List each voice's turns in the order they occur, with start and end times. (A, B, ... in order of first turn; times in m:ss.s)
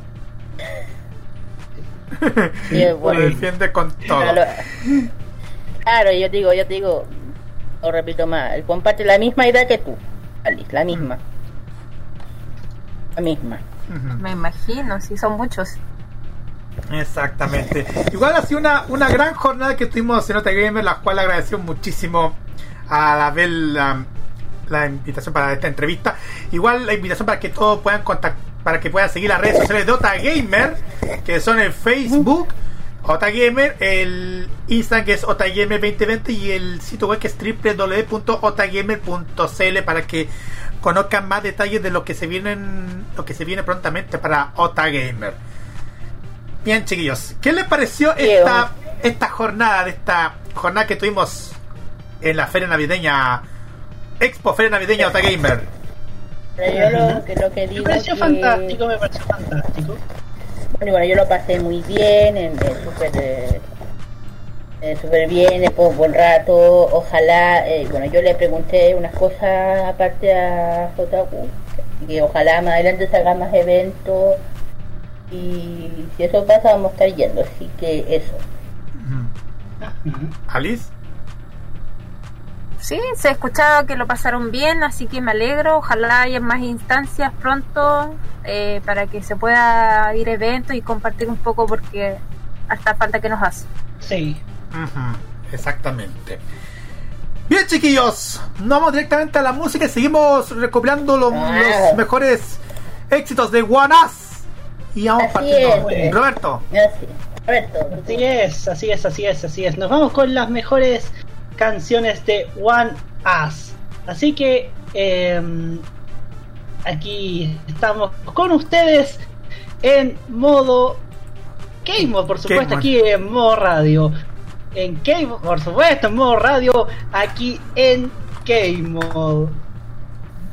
0:02.2-0:04.4 A
0:02.7-0:03.4 B
0:02.7-0:03.5 C
0:04.1-0:04.6 C
0:05.8-0:07.3 C
0:07.8-0:11.2 C
0:13.2-0:13.6 C
0:13.9-0:14.2 A
0:14.2-0:15.8 D
0:16.9-0:24.1 A
0:24.7-0:40.3 A
0:40.8-0:45.4 A
0:46.6-0:51.6 A
0:48.2-0:48.7 C
0:52.2-0:53.4 A
0:54.2-0:55.7 A
0:56.6-0:58.8 C
0:56.7-0:57.2 B
0:57.8-1:00.0 B
1:00.8-1:03.6 C
1:04.8-1:14.4 C
1:15.3-1:18.4 C
1:19.0-1:19.3 A
1:19.8-1:20.3 B
1:20.5-1:20.9 A
1:22.8-1:33.7 D
1:34.0-1:34.4 B
1:34.7-1:36.4 A
1:37.5-1:46.6 A
1:41.3-1:42.0 C
1:45.2-1:46.2 C
1:45.6-1:46.1 B
1:46.7-1:48.2 C
1:47.9-1:55.9 B
1:56.8-1:59.2 B
1:59.8-2:01.0 B
2:01.8-2:04.1 B
2:02.0-2:02.9 A
2:04.7-2:09.6 B